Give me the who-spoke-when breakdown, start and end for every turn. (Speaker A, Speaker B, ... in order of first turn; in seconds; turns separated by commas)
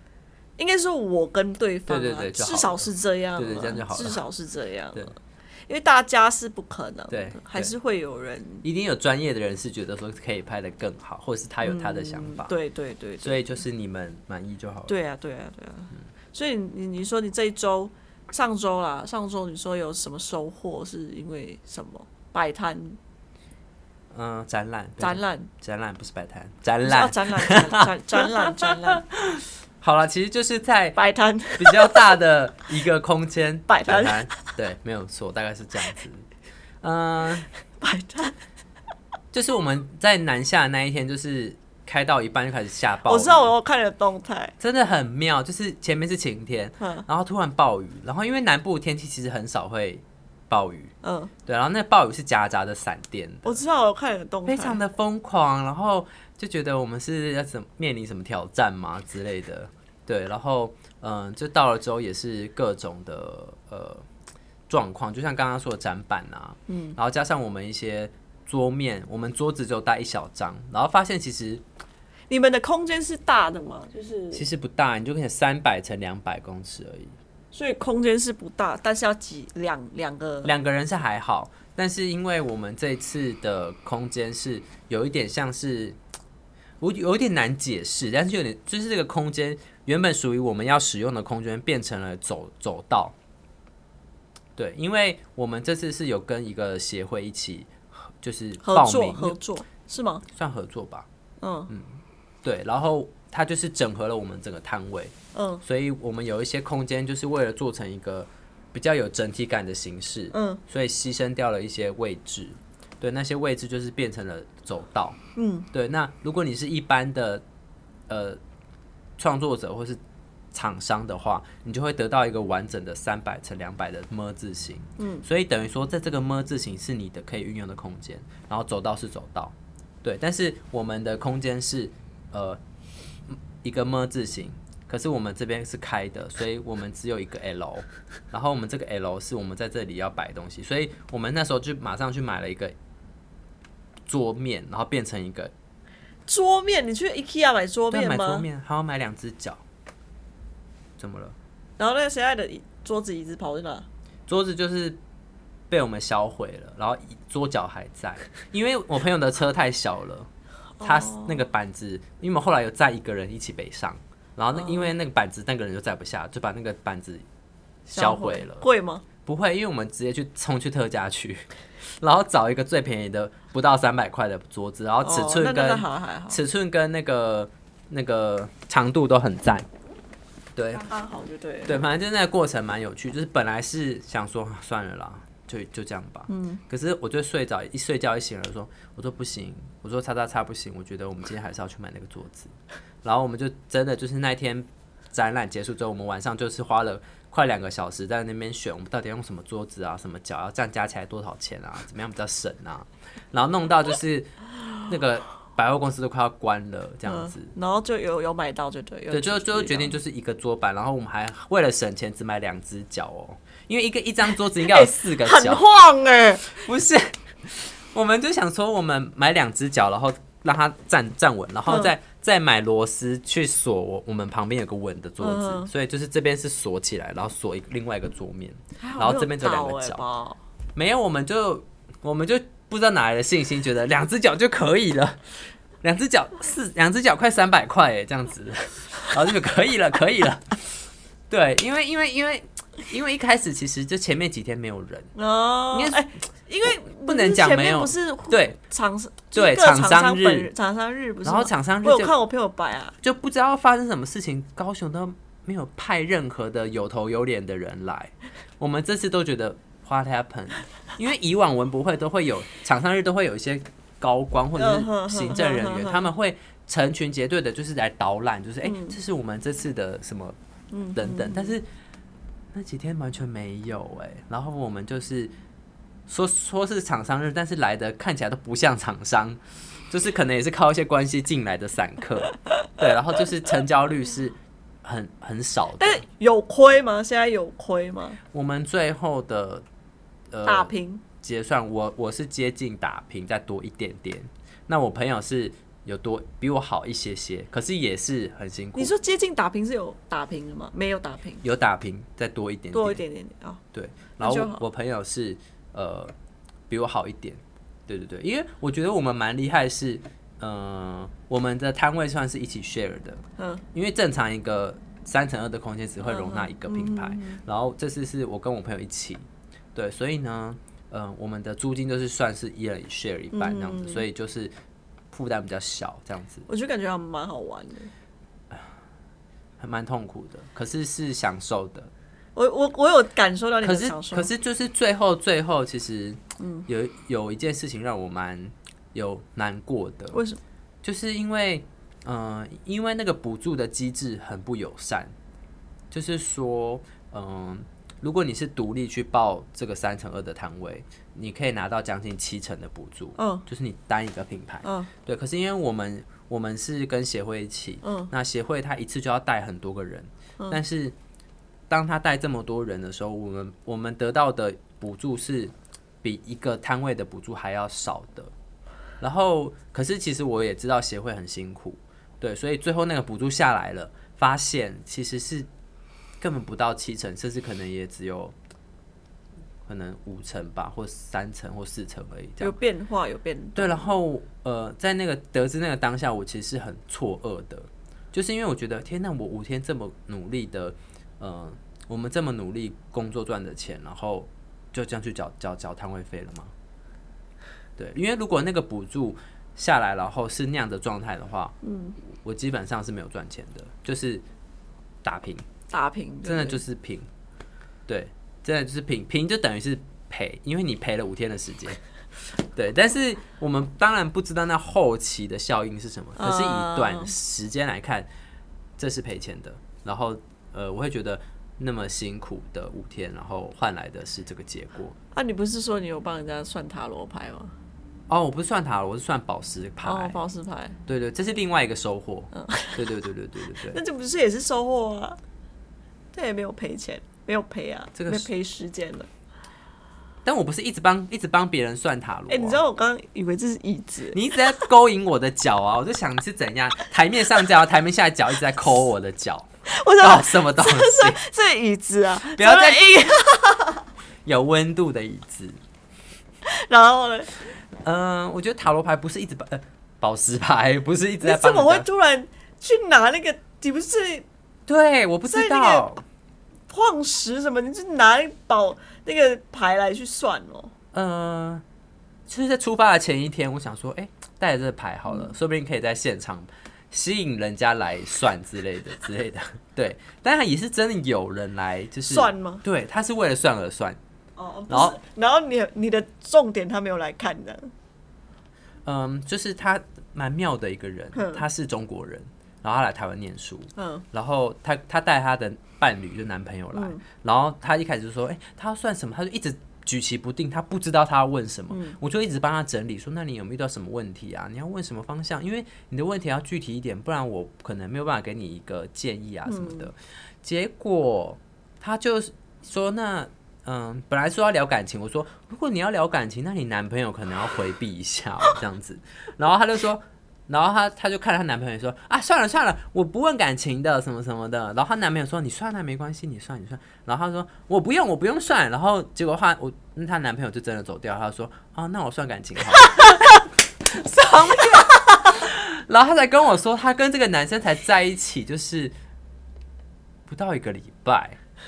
Speaker A: 0.6-8.7, Speaker B: 1.9-4.2, Speaker B: 7.1-7.7, Speaker B: 8.6-12.5, Speaker A: 11.6-13.6, Speaker B: 13.2-14.9, Speaker A: 14.9-23.0, Speaker B: 24.1-31.0, Speaker A: 25.0-25.5, Speaker A: 26.8-29.0, Speaker A: 30.9-32.1, Speaker B: 31.6-36.3, Speaker A: 33.7-34.5, Speaker B: 36.8-37.5, Speaker A: 37.8-38.4, Speaker B: 39.3-43.5, Speaker A: 43.0-44.5, Speaker B: 44.6-50.9, Speaker A: 46.8-47.0, Speaker A: 51.0-51.3, Speaker B: 51.5-53.6, Speaker A: 53.4-54.8, Speaker B: 54.5-64.0, Speaker B: 64.7-71.6, Speaker A: 66.7-67.0, Speaker A: 72.3-74.4, Speaker B: 74.3-77.2, Speaker A: 77.5-80.5, Speaker B: 80.4-86.0, Speaker B: 86.8-93.1, Speaker B: 94.5-99.4, Speaker A: 98.6-100.2, Speaker B: 100.3-101.1, Speaker A: 101.4-101.7, Speaker B: 101.7-115.2, Speaker A: 105.3-105.6, Speaker A: 110.3-110.6, Speaker A: 115.3-115.7, Speaker B: 115.7-117.4, Speaker B: 118.1-118.4, Speaker B: 119.2-120.0, Speaker B: 120.5-132.6, Speaker A: 125.0-125.2, Speaker B: 133.3-142.7, Speaker B: 144.1-145.5, Speaker A: 146.3-148.4, Speaker B: 147.9-149.6, Speaker B: 151.0-151.3, Speaker A: 151.8-153.9, Speaker B: 154.3-155.0, Speaker B: 155.7-160.3, Speaker A: 160.8-161.4, Speaker B: 160.8-167.2, Speaker A: 164.5-164.9, Speaker A: 167.9-169.0, Speaker B: 167.9-168.7, Speaker B: 169.2-171.4, Speaker B: 172.0-179.7, Speaker A: 175.0-176.4, Speaker B: 180.5-180.8, Speaker A: 180.7-181.8, Speaker B: 181.7-207.5, Speaker A: 186.3-186.6, Speaker A: 207.1-209.9, Speaker B: 209.1-215.6, Speaker A: 214.6-216.6, Speaker B: 216.4-230.0, Speaker A: 221.7-221.9, Speaker A: 225.2-225.7, Speaker A: 228.8-230.4, Speaker B: 230.7-240.6, Speaker B: 241.3-245.1, Speaker A: 245.1-252.9, Speaker B: 245.7-246.0, Speaker B: 246.6-248.6, Speaker B: 249.3-250.5, Speaker B: 251.2-252.1, Speaker B: 253.0-270.4, Speaker A: 264.6-266.1, Speaker A: 268.6-269.0, Speaker A: 270.7-271.5, Speaker B: 270.9-271.6, Speaker B: 272.5-275.3, Speaker B: 276.1-286.0, Speaker A: 285.8-288.2, Speaker B: 288.3-289.6, Speaker B: 290.3-298.9, Speaker A: 290.4-291.0, Speaker A: 298.7-301.4, Speaker B: 301.4-303.0, Speaker A: 302.7-303.6, Speaker B: 303.7-306.1, Speaker A: 304.2-304.6, Speaker B: 306.7-324.5, Speaker A: 313.4-313.6, Speaker A: 316.0-317.4, Speaker A: 323.3-324.1, Speaker B: 325.1-326.4, Speaker A: 326.5-327.9, Speaker B: 329.6-331.9, Speaker A: 332.4-334.3, Speaker B: 333.6-340.2, Speaker A: 336.4-336.7, Speaker A: 340.1-340.4, Speaker B: 340.8-345.1, Speaker B: 345.9-360.9, Speaker A: 353.2-353.4, Speaker A: 354.6-354.9, Speaker A: 357.8-358.1, Speaker B: 361.7-368.3, Speaker B: 369.0-375.5, Speaker B: 376.2-378.3, Speaker B: 379.6-382.6, Speaker A: 382.4-383.9, Speaker B: 383.5-396.5, Speaker B: 397.8-401.5, Speaker A: 401.6-401.9, Speaker B: 402.1-404.2, Speaker B: 405.0-405.4, Speaker A: 405.7-406.6, Speaker B: 406.2-407.1, Speaker B: 407.9-411.8, Speaker B: 412.4-418.1, Speaker A: 416.2-417.1, Speaker B: 418.8-424.9, Speaker A: 425.1-427.5, Speaker B: 428.1-430.2, Speaker A: 429.8-430.8, Speaker B: 430.9-433.8, Speaker A: 432.3-432.8, Speaker A: 433.6-435.2, Speaker A: 436.1-439.1, Speaker B: 437.9-438.3, Speaker B: 440.2-442.6, Speaker A: 442.3-444.2, Speaker B: 444.1-451.2, Speaker A: 449.6-453.8, Speaker B: 452.2-452.8, Speaker B: 454.2-455.6, Speaker A: 456.4-457.3, Speaker B: 457.8-461.9, Speaker A: 461.2-464.2, Speaker B: 464.7-466.0, Speaker A: 465.2-465.9, Speaker A: 466.7-470.7, Speaker B: 470.9-471.6, Speaker B: 472.3-484.0, Speaker A: 482.1-482.6, Speaker A: 484.4-487.7, Speaker B: 484.7-485.0, Speaker B: 488.8-533.3, Speaker A: 491.1-491.4, Speaker A: 493.8-494.0, Speaker A: 496.7-497.0, Speaker A: 501.7-502.0, Speaker A: 509.4-509.9, Speaker B: 533.8-538.9, Speaker B: 540.3-541.4